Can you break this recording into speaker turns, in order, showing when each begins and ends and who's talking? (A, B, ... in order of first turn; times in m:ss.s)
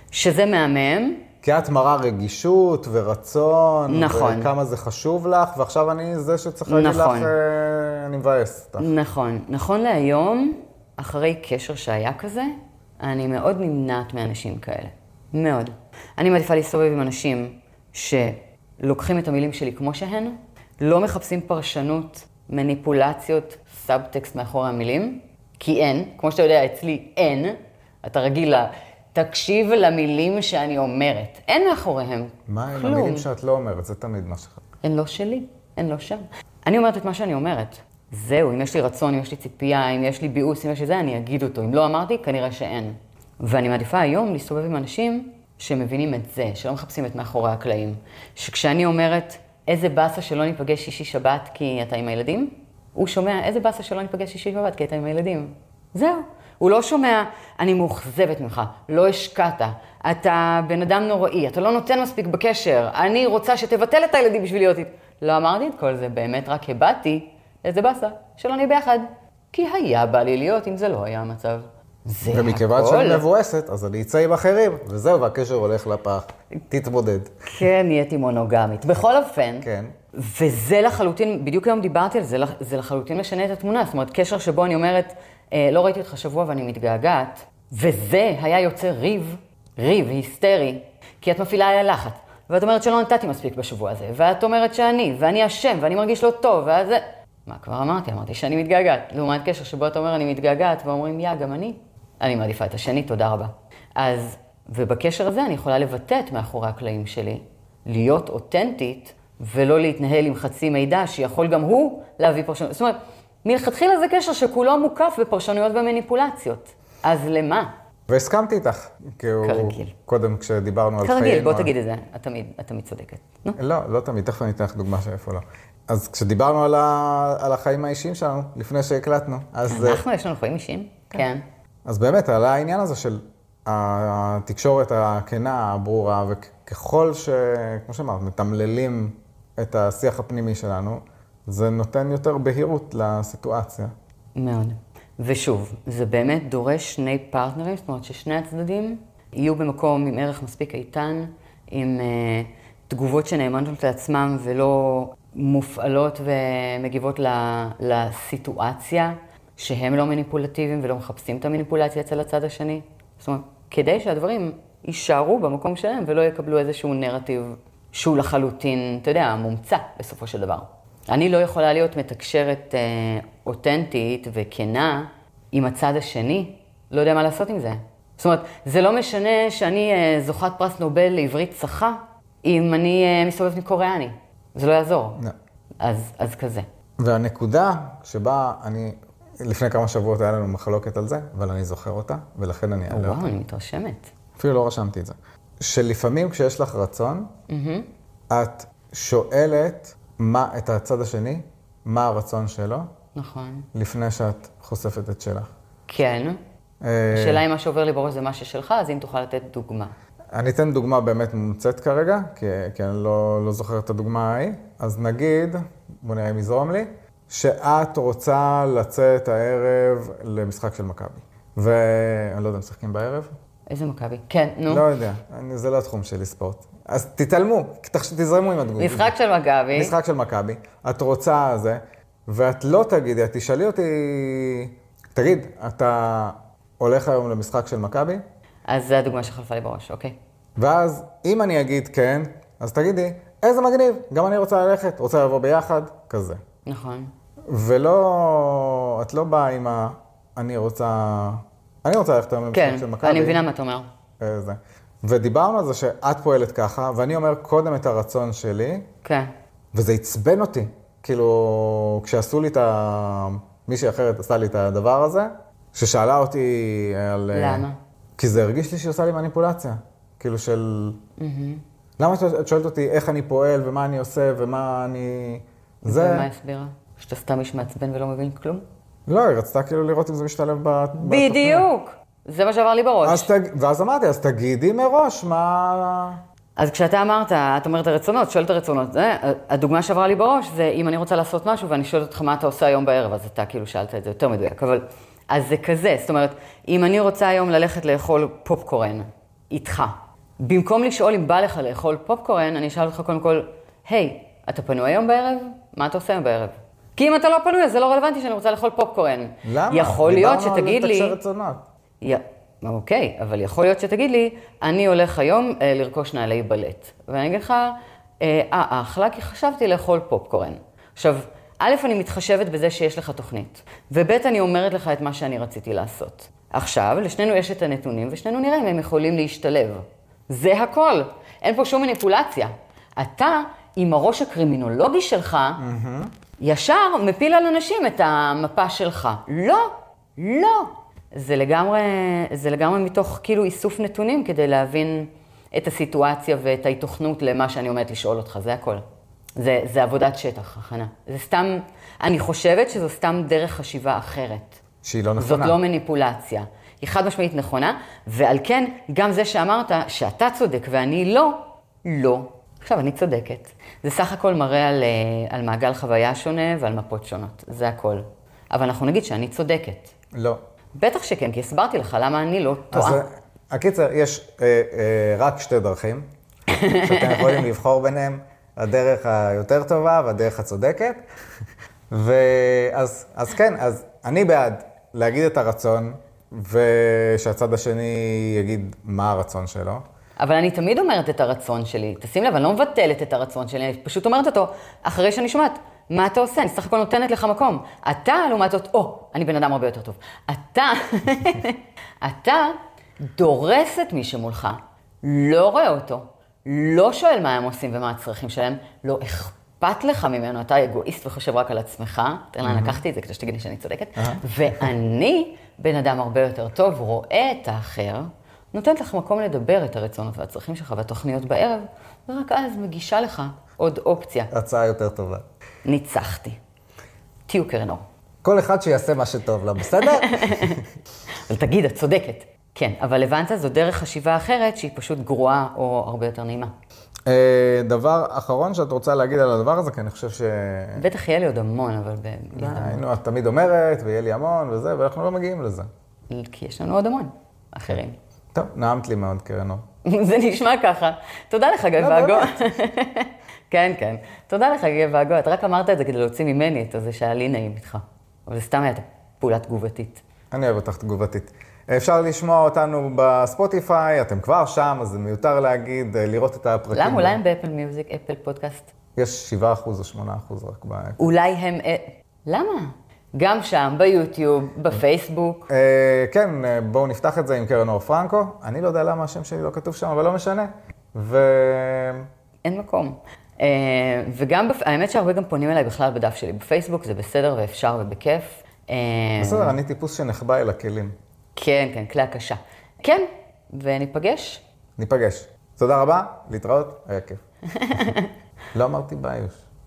0:00.1-0:01.2 A
0:01.4-0:08.9 B
0:03.9-0:04.5 A
0:06.6-0:07.3 A
0:08.8-0:33.3 A
0:32.5-0:34.6 B
0:34.8-1:13.2 A
1:12.3-1:17.3 B
1:17.5-1:57.7 A
1:19.6-1:19.9 B
1:58.1-2:01.7 B
1:59.4-1:59.9 A
2:01.0-2:03.6 A
2:03.6-2:10.0 B
2:09.7-2:11.4 A
2:11.8-2:23.9 B
2:24.4-3:05.2 A
3:05.8-3:06.6 A
3:07.0-3:13.3 B
3:12.9-3:14.1 A
3:14.4-3:17.3 B
3:17.5-3:17.9 A
3:18.3-3:22.9 B
3:23.1-3:23.7 A
3:23.7-3:25.5 B
3:25.9-3:26.4 A
3:26.8-3:27.4 B
3:27.1-3:29.9 A
3:30.3-3:43.4 B
3:43.7-3:44.9 A
3:44.7-3:49.1 B
3:48.8-3:49.9 A
3:49.7-3:58.2 B
3:58.7-4:00.1 A
4:00.6-4:06.4 B
4:06.6-4:07.1 A
4:07.5-4:13.4 B
4:12.5-4:13.9 A
4:14.2-4:18.9 B
4:19.0-4:19.3 A
4:19.7-4:27.6 B
4:27.3-4:27.8 A
4:28.2-4:31.0 B
4:31.2-4:31.6 A
4:32.0-4:36.3 B
4:35.8-4:38.6 A
4:39.1-4:41.6 B
4:41.0-4:43.3 A
4:43.0-4:46.2 B
4:46.6-5:11.2 A
5:09.4-5:11.6 B
5:12.0-5:35.6 A
5:35.6-5:36.1 B
5:36.4-5:48.8 A
5:49.4-5:54.6 A
5:54.8-5:55.6 B
5:55.2-6:09.9 A
6:10.1-6:10.4 B
6:10.8-6:13.0 A
6:12.7-6:16.1 B
6:16.5-6:17.4 A
6:16.8-6:21.0 B
6:21.9-6:29.8 B
6:30.2-7:04.3 A
6:52.4-6:52.8 B
6:54.0-6:54.7 B
7:04.3-7:05.2 B
7:05.6-7:06.4 A
7:07.3-7:07.8 A
7:08.2-7:10.6 B
7:09.8-7:10.6 A
7:11.1-7:16.5 A
7:17.1-7:20.9 B
7:20.8-7:22.8 A
7:22.3-7:25.7 B
7:26.1-7:28.0 A
7:28.3-7:29.6 B
7:29.8-7:40.0 A
7:31.8-7:32.4 B
7:40.3-7:47.2 B
7:46.7-7:48.7 A
7:49.0-7:51.0 B
7:51.0-7:55.5 A
7:55.5-8:02.1 B
8:02.4-8:09.6 A
8:09.2-8:11.0 B
8:11.4-8:14.4 A
8:14.8-8:17.9 B
8:17.5-8:18.1 A
8:18.5-8:19.4 B